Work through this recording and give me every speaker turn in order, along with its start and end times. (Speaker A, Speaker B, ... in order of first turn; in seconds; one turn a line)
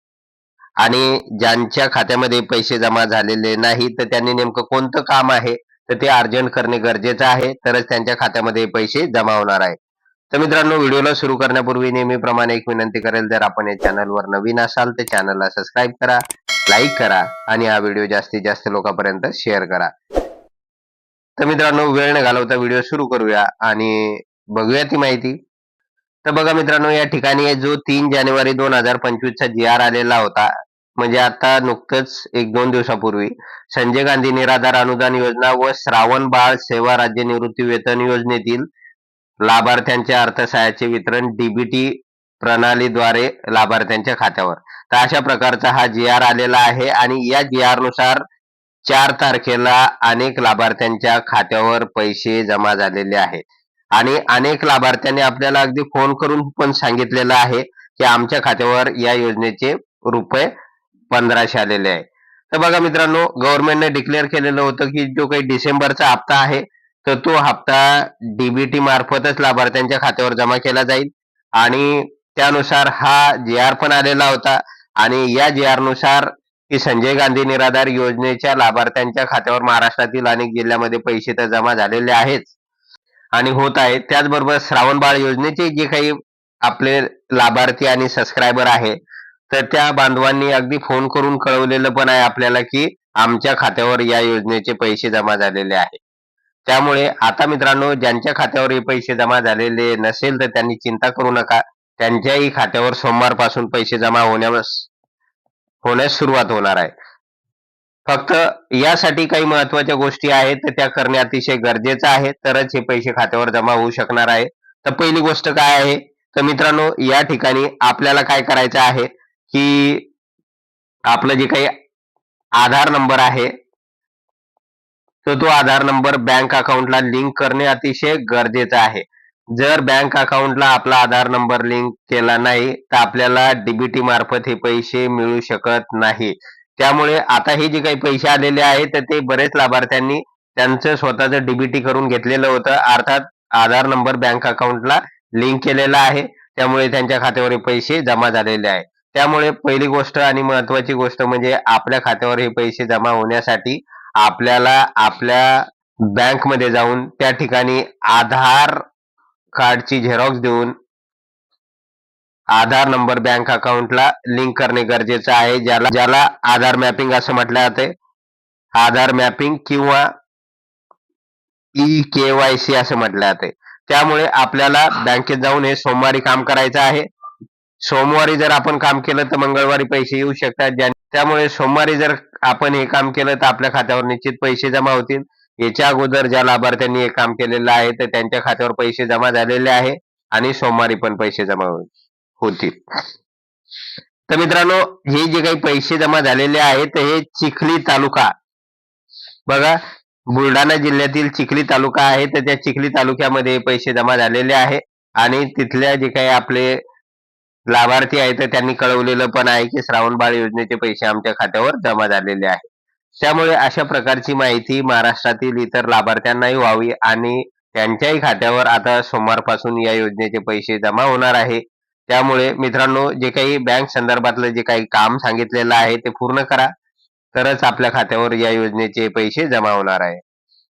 Speaker A: 0.8-9.8
Speaker A: 10.3-19.9
Speaker A: 21.4-25.4
Speaker A: 26.2-38.6
Speaker A: 39.4-48.2
Speaker A: 48.8-53.4
Speaker A: 54.0-60.5
Speaker A: 61.1-82.5
Speaker A: 83.3-89.0
Speaker A: 89.5-96.0
Speaker A: 96.7-104.9
Speaker A: 105.8-106.9
Speaker A: 108.1-120.1
Speaker A: 121.1-121.7
Speaker A: 122.6-123.5
Speaker A: 125.2-158.8
Speaker A: 159.6-160.7
Speaker A: 162.5-167.9
Speaker A: 168.7-170.1
Speaker A: 171.8-177.1
Speaker A: 177.8-192.8
Speaker A: 194.3-198.3
Speaker A: 199.5-199.8
Speaker A: 200.3-206.8
Speaker A: 207.7-226.7
Speaker A: 227.3-230.2